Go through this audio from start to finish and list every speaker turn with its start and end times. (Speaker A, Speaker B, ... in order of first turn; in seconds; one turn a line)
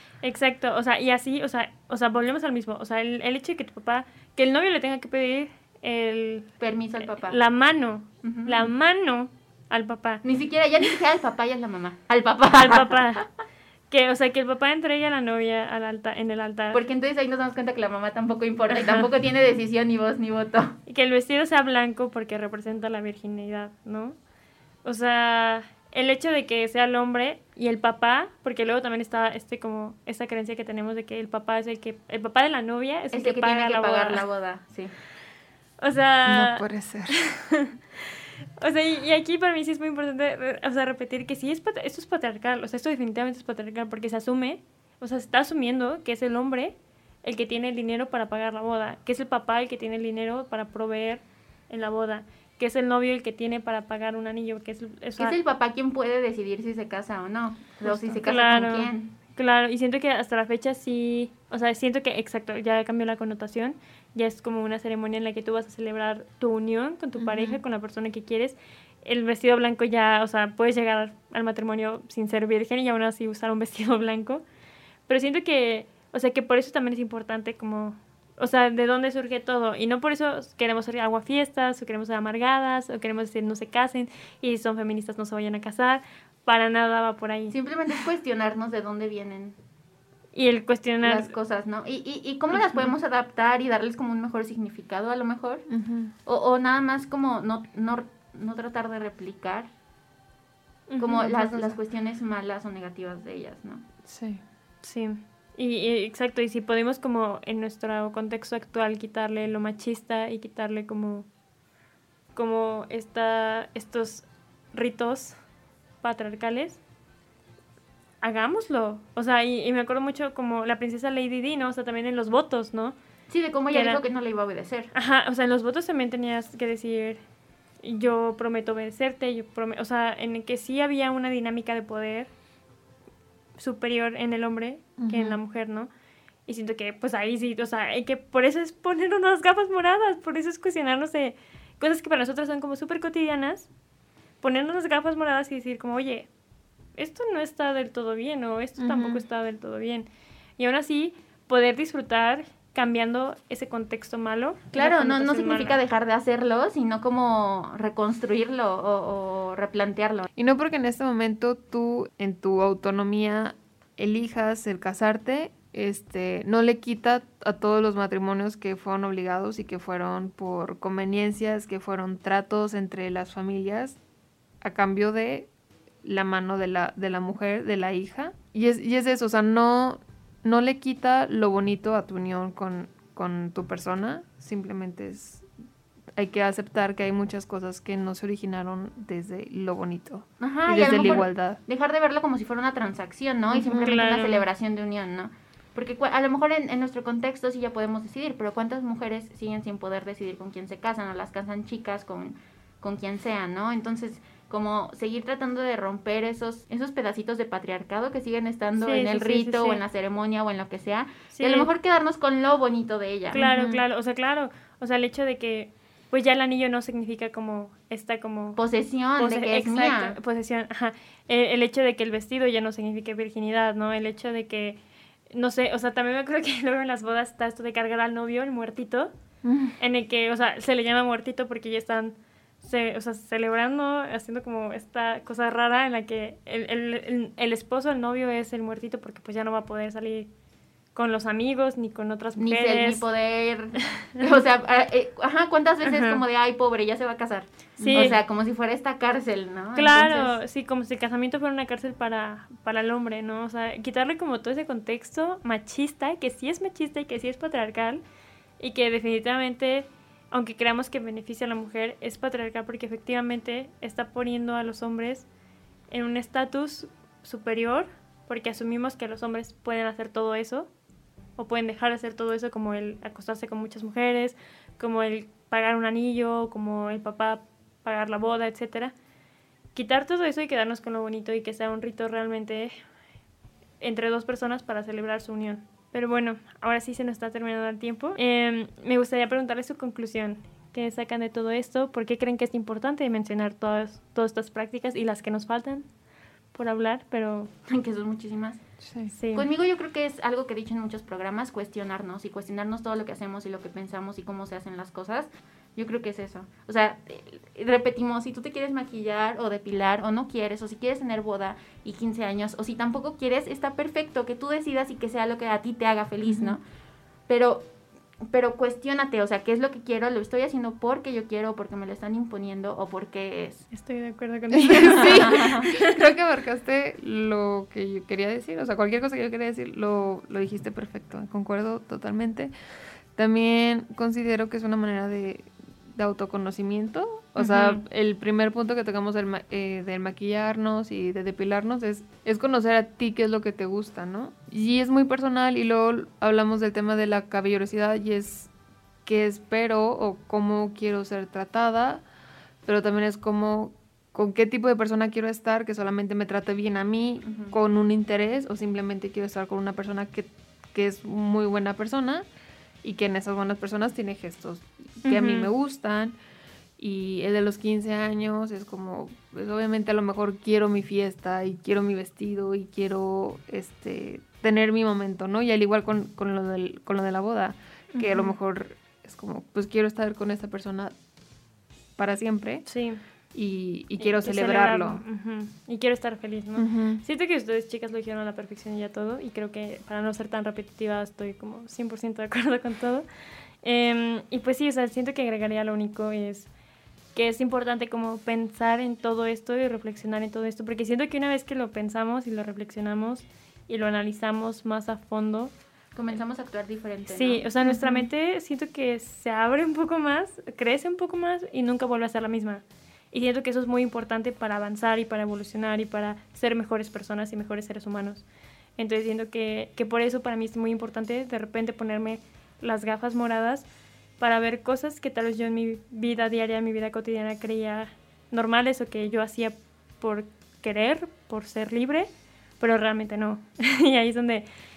Speaker A: 0.2-10.2
Speaker B: 6.6-7.4
Speaker B: 8.2-8.7
Speaker B: 10.2-13.2
Speaker A: 12.6-13.3
Speaker A: 13.9-16.8
Speaker B: 16.7-20.7
Speaker A: 18.7-19.1
Speaker A: 20.9-24.2
Speaker A: 24.8-34.2
Speaker B: 33.1-34.9
Speaker A: 35.8-36.7
Speaker C: 36.3-37.2
Speaker A: 37.2-37.7
Speaker A: 38.6-55.4
Speaker B: 55.2-59.1
Speaker A: 57.9-74.4
Speaker C: 67.2-67.6
Speaker A: 75.1-87.5
Speaker B: 87.5-89.6
Speaker A: 90.3-91.3
Speaker B: 91.0-95.7
Speaker C: 92.5-92.9
Speaker C: 95.7-96.1
Speaker B: 96.2-99.7
Speaker A: 100.9-101.3
Speaker B: 101.0-103.8
Speaker C: 101.2-101.8
Speaker C: 104.0-104.4
Speaker A: 104.8-111.3
Speaker A: 112.3-115.4
Speaker A: 116.0-116.8
Speaker A: 118.2-123.0
Speaker B: 123.3-124.9
Speaker A: 123.7-124.0
Speaker A: 124.9-127.2
Speaker A: 127.8-132.3
Speaker A: 133.6-135.9
Speaker C: 135.0-135.4
Speaker A: 136.5-143.7
Speaker A: 144.4-146.3
Speaker A: 147.0-155.8
Speaker C: 148.8-149.2
Speaker B: 154.7-160.3
Speaker C: 160.4-174.0
Speaker C: 174.6-175.5
Speaker C: 176.0-185.5
Speaker C: 186.2-191.6
Speaker B: 190.4-213.4
Speaker C: 193.5-194.0
Speaker A: 193.7-194.5
Speaker A: 208.8-209.8
Speaker A: 211.3-211.7
Speaker C: 213.3-213.8
Speaker A: 213.3-218.6
Speaker B: 218.6-220.2
Speaker A: 219.2-224.8
Speaker A: 225.3-229.1
Speaker C: 229.4-229.8
Speaker A: 229.8-240.3
Speaker A: 240.9-243.0
Speaker B: 242.4-250.3
Speaker A: 245.8-246.2
Speaker C: 247.8-248.2
Speaker A: 247.8-248.2
Speaker A: 249.8-258.0
Speaker A: 258.6-265.3
Speaker A: 265.9-270.7
Speaker A: 271.4-278.9
Speaker A: 279.8-282.8
Speaker A: 283.8-295.9
Speaker A: 296.5-297.5
Speaker B: 297.7-298.6
Speaker C: 298.8-299.1
Speaker A: 299.1-299.5
Speaker B: 299.3-316.6
Speaker C: 316.2-316.6
Speaker B: 317.3-317.7
Speaker B: 318.3-323.6
Speaker A: 323.7-325.9
Speaker C: 324.5-332.5
Speaker B: 324.8-325.7
Speaker C: 333.1-348.5
Speaker A: 337.4-337.8
Speaker C: 349.1-352.0
Speaker C: 352.7-362.3
Speaker B: 357.2-357.5
Speaker C: 362.8-366.2
Speaker A: 365.0-365.5
Speaker C: 366.8-380.9
Speaker A: 377.9-378.4
Speaker C: 382.0-382.7
Speaker A: 382.7-383.0
Speaker C: 383.3-385.0
Speaker A: 384.0-393.1
Speaker C: 386.6-387.0
Speaker A: 393.6-396.5
Speaker A: 397.1-405.5
Speaker B: 405.9-407.4
Speaker A: 407.1-418.2
Speaker C: 407.6-408.1
Speaker A: 418.8-423.7
Speaker A: 424.2-432.1
Speaker A: 432.6-434.5